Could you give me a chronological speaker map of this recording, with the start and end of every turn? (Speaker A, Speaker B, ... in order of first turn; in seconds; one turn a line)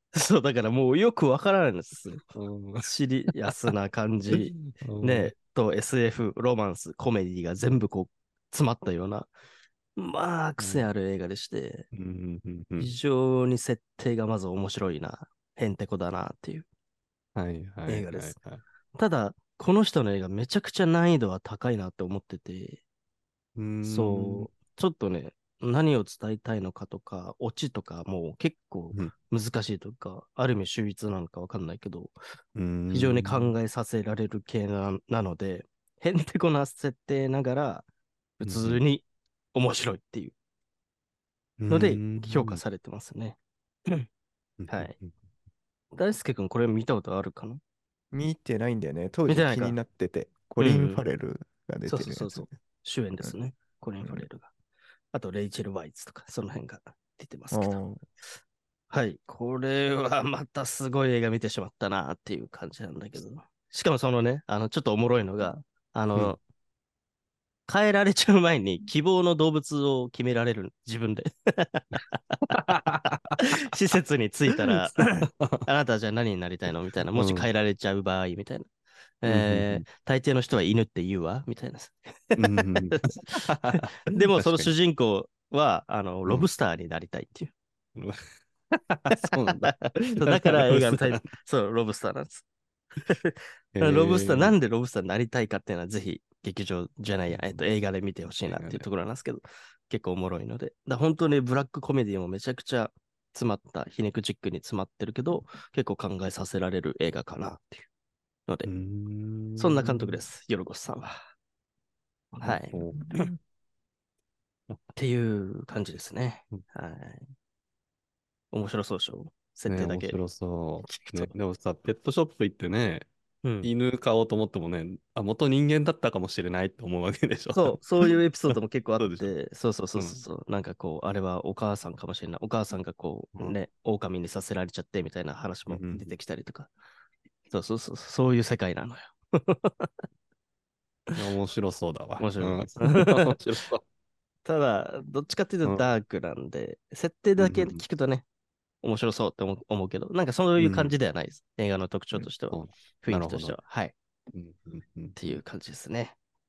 Speaker A: 0.1-2.2
Speaker B: 2.3-2.9
Speaker A: 2.9-9.3
Speaker B: 4.3-5.3
Speaker A: 10.0-11.9
Speaker B: 10.6-10.9
Speaker B: 11.9-12.9
Speaker A: 12.8-16.7
Speaker B: 17.4-18.6
Speaker A: 17.9-18.4
Speaker A: 18.9-22.8
Speaker B: 23.6-24.5
Speaker A: 23.8-32.1
Speaker B: 32.6-33.5
Speaker A: 32.9-37.9
Speaker A: 38.4-40.3
Speaker B: 38.4-38.8
Speaker B: 41.6-42.6
Speaker A: 41.7-44.1
Speaker B: 44.6-45.1
Speaker A: 44.7-44.9
Speaker A: 45.9-47.6
Speaker C: 48.1-52.5
Speaker A: 49.3-49.8
Speaker A: 50.6-51.0
Speaker A: 51.9-54.5
Speaker A: 55.1-57.8
Speaker C: 57.5-58.0
Speaker A: 58.9-66.4
Speaker A: 67.7-72.5
Speaker B: 72.5-73.4
Speaker A: 73.4-78.7
Speaker B: 75.2-75.7
Speaker B: 77.1-77.5
Speaker A: 79.2-82.4
Speaker B: 79.2-79.8
Speaker B: 82.4-84.7
Speaker A: 84.1-87.5
Speaker B: 88.7-91.2
Speaker A: 89.6-92.5
Speaker A: 93.1-107.9
Speaker B: 93.8-94.6
Speaker B: 97.3-97.6
Speaker B: 98.5-98.9
Speaker B: 108.6-110.2
Speaker A: 109.6-111.2
Speaker B: 112.4-113.1
Speaker A: 112.4-113.3
Speaker C: 112.9-113.4
Speaker A: 115.0-117.3
Speaker A: 118.5-120.2
Speaker B: 119.7-123.1
Speaker A: 120.8-121.3
Speaker A: 123.4-123.7
Speaker B: 123.6-129.4
Speaker A: 127.5-136.7
Speaker B: 135.7-136.1
Speaker A: 137.5-139.9
Speaker B: 141.1-143.8
Speaker A: 142.2-143.3
Speaker A: 144.4-148.2
Speaker B: 147.4-147.8
Speaker A: 148.8-153.9
Speaker B: 150.6-151.0
Speaker B: 152.1-153.6
Speaker B: 154.3-155.2
Speaker A: 155.2-156.2